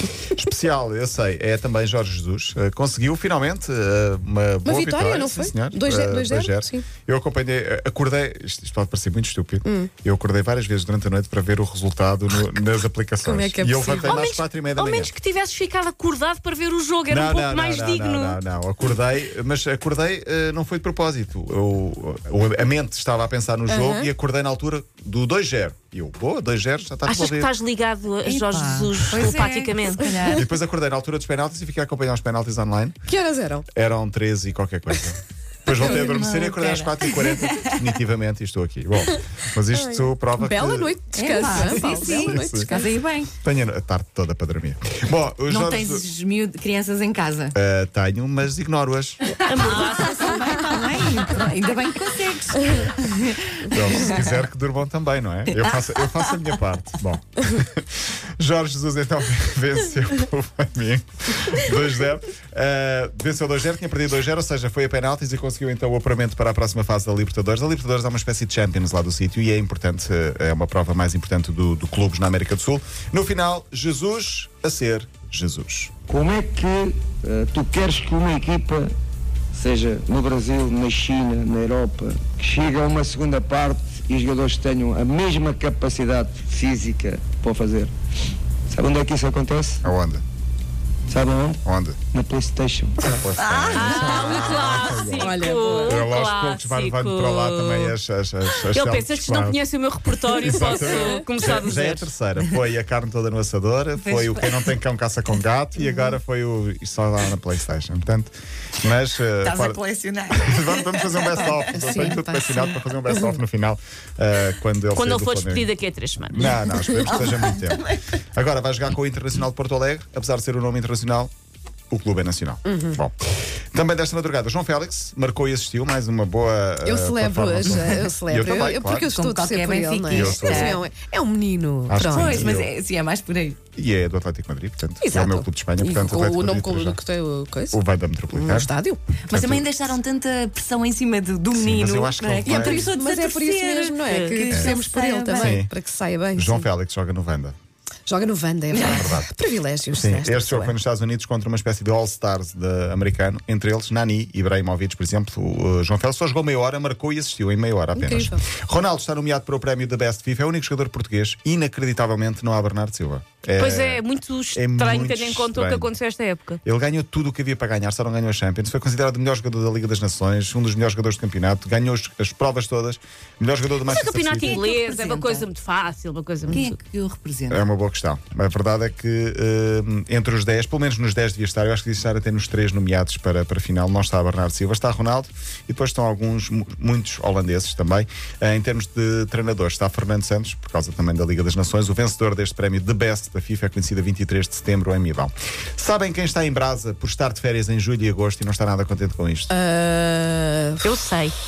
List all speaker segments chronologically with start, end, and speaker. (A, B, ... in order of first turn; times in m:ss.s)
0:00.3-0:15.1 A
0:04.6-0:06.9 B
0:09.6-0:09.9 B
0:13.2-0:14.2 B
0:14.0-0:18.4 C
0:17.1-0:27.5 A
0:23.7-0:24.1 B
0:27.1-0:30.1 C
0:28.2-0:30.5 D
0:30.3-0:33.0 A
0:33.1-0:33.7 B
0:33.7-0:42.7 A
0:35.7-0:37.9 D
0:39.8-0:42.9 B
0:41.1-0:43.3 D
0:43.4-0:46.1 A
0:45.5-0:47.6 D
0:47.5-0:49.4 A
0:49.3-0:54.4 D
0:49.4-0:50.9 C
0:53.6-1:15.9 A
0:55.5-0:56.2 D
1:16.1-1:18.9 E
1:19.5-1:27.9 E
1:28.7-1:29.8 E
1:29.8-1:30.2 A
1:31.1-1:33.2 E
1:31.6-1:32.0 A
1:33.0-1:39.6 A
1:33.4-1:34.5 D
1:33.7-1:38.0 C
1:34.9-1:36.0 B
1:38.6-1:42.1 C
1:40.3-1:55.7 A
1:44.0-1:44.7 D
1:49.4-1:52.1 D
1:51.7-1:53.4 B
1:54.9-1:56.6 C
1:56.3-2:01.3 A
1:57.0-1:58.2 D
2:01.9-2:03.2 A
2:02.6-2:03.0 B
2:03.7-2:09.1 A
2:06.8-2:12.6 B
2:09.1-2:10.8 D
2:10.1-2:10.8 A
2:11.9-2:12.7 A
2:12.1-2:13.6 D
2:13.8-2:17.0 A
2:15.0-2:17.8 B
2:17.7-2:18.7 A
2:18.3-2:19.0 B
2:19.3-2:25.6 D
2:19.3-2:19.7 A
2:21.6-2:22.9 A
2:22.4-2:26.7 B
2:24.1-2:24.4 C
2:24.5-2:24.8 A
2:25.4-2:25.7 A
2:26.4-2:27.6 A
2:28.1-2:30.8 B
2:28.7-2:29.0 D
2:28.8-2:29.3 A
2:29.9-2:44.0 A
2:38.0-2:38.4 B
2:43.6-2:46.6 C
2:44.6-2:45.9 A
2:46.6-2:54.6 A
2:53.8-2:56.7 C
2:54.4-2:55.5 D
2:56.5-2:57.7 D
2:57.5-3:19.5 A
3:19.5-3:21.0 B
3:20.8-3:21.4 C